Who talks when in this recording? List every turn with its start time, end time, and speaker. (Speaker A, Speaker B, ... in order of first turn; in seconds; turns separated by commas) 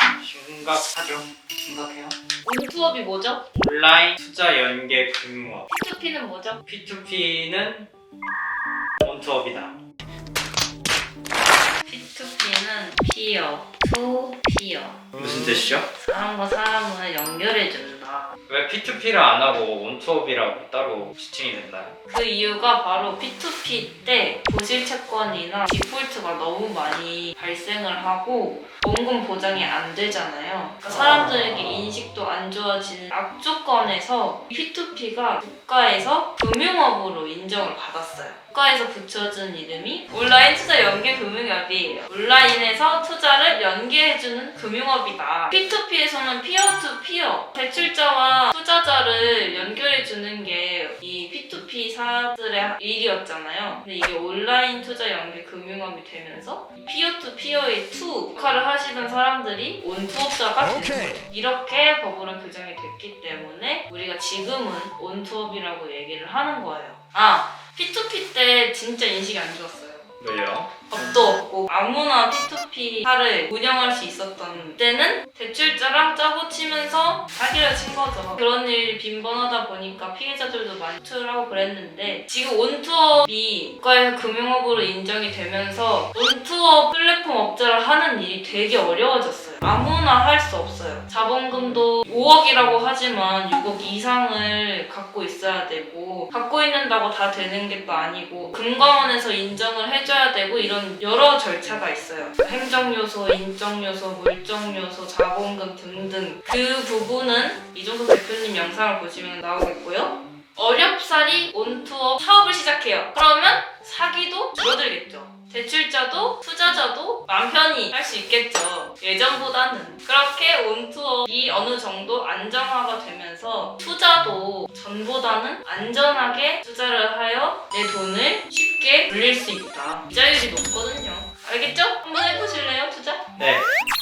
Speaker A: 0.2-2.1, Speaker B: 2.4-3.4, Speaker A: 3.5-5.7, Speaker B: 5.7-6.6, Speaker A: 6.7-7.9, Speaker A: 9.0-9.8, Speaker B: 11.8-18.3, Speaker A: 15.2-15.9, Speaker A: 18.5-21.9, Speaker B: 22.1-70.1, Speaker A: 70.2-70.8, Speaker B: 70.9-133.2, Speaker A: 133.4-133.7